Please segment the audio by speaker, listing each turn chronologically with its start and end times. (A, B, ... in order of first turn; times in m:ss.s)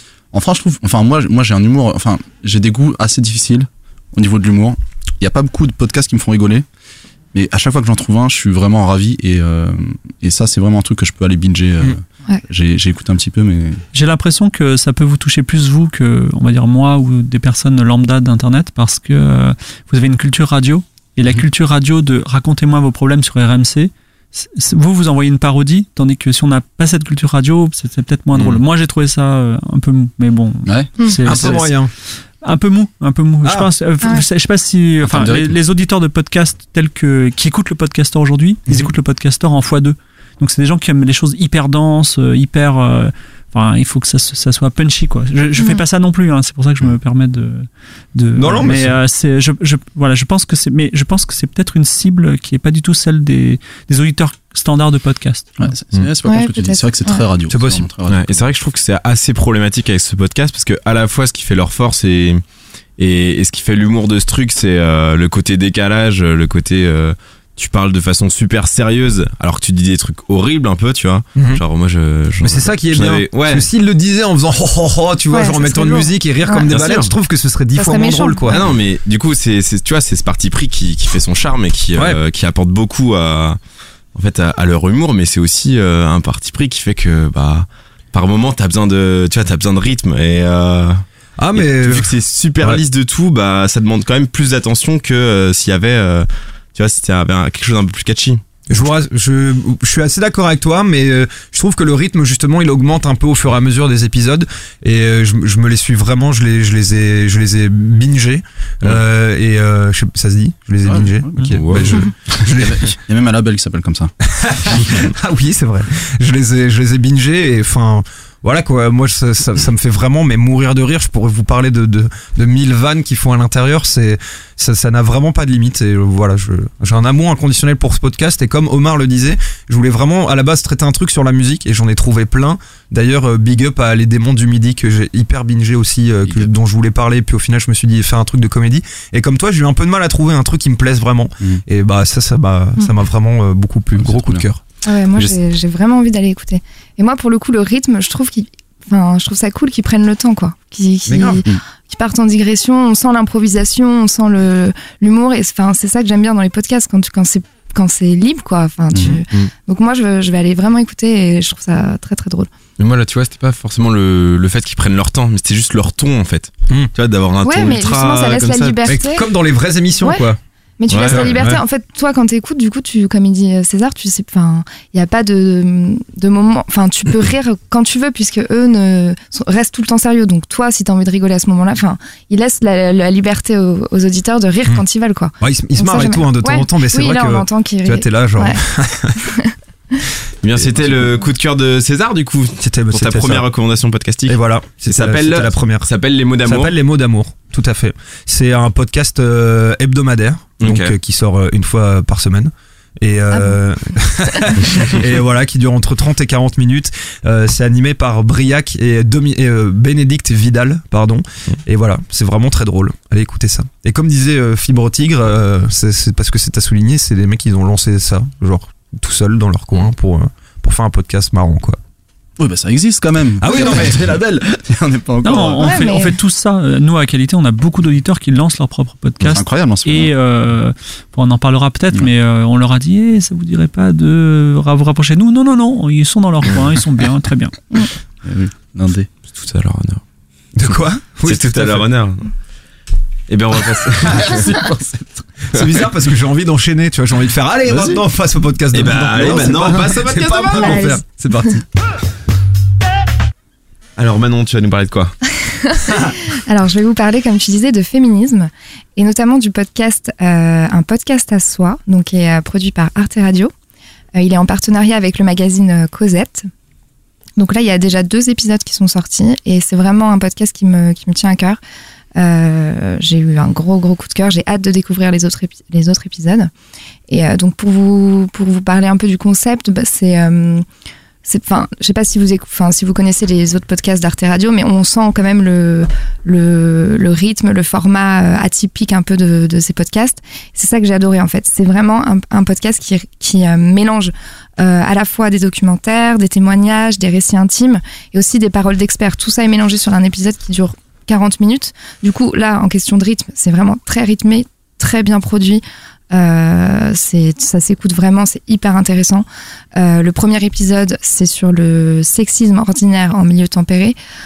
0:00.3-0:06.6 A
0:07.3-0:13.8 A
0:13.9-0:31.7 B
0:28.4-0:28.6 C
0:30.6-0:31.6 A
0:31.2-0:31.9 D
0:32.4-0:55.7 B
0:35.1-0:35.5 A
0:48.4-0:48.9 D
0:55.6-0:58.4 A
0:56.2-0:57.2 E
0:57.5-0:57.9 D
0:58.1-1:02.4 C
1:03.0-1:13.7 C
1:11.4-1:11.6 D
1:12.4-1:18.7 D
1:15.3-1:16.7 E
1:16.7-1:17.1 C
1:17.8-1:18.6 E
1:18.5-1:23.6 C
1:24.1-1:31.0 C
1:31.4-1:32.8 D
1:31.6-1:38.4 C
1:38.7-1:52.8 D
1:50.8-1:54.1 A
1:51.5-1:52.0 C
1:54.4-2:24.6 D
2:24.0-2:24.4 A
2:24.8-2:42.5 E
2:31.1-2:31.4 D
2:38.9-2:39.2 A
2:42.8-2:48.8 C
2:47.4-2:49.2 E
2:48.9-2:50.4 D
2:50.8-3:08.6 E
2:50.9-2:51.4 C
2:50.9-2:51.6 D
3:05.4-3:09.3 D
3:09.3-3:09.5 E
3:10.4-3:16.7 C
3:12.6-3:13.5 D
3:14.3-3:15.9 D
3:16.4-3:41.8 D
3:20.6-3:20.9 C
3:23.3-3:23.6 E
3:42.4-3:46.0 A
3:43.4-3:44.0 D
3:45.2-3:57.5 B
3:45.6-3:46.1 E
3:49.2-3:50.1 A
3:58.2-3:59.1 A
3:59.3-4:00.0 C
4:00.6-4:01.9 D
4:01.2-4:02.3 C
4:03.3-4:04.4 C
4:04.3-4:05.0 A
4:05.5-4:11.6 D
4:07.7-4:08.0 A
4:08.7-4:10.9 C
4:09.2-4:09.6 A
4:10.5-4:11.5 E
4:14.0-4:15.2 C
4:15.7-4:23.5 E
4:24.1-4:26.5 E
4:27.4-4:31.6 E
4:32.2-4:36.5 E
4:37.1-4:40.6 E
4:41.2-5:14.0 E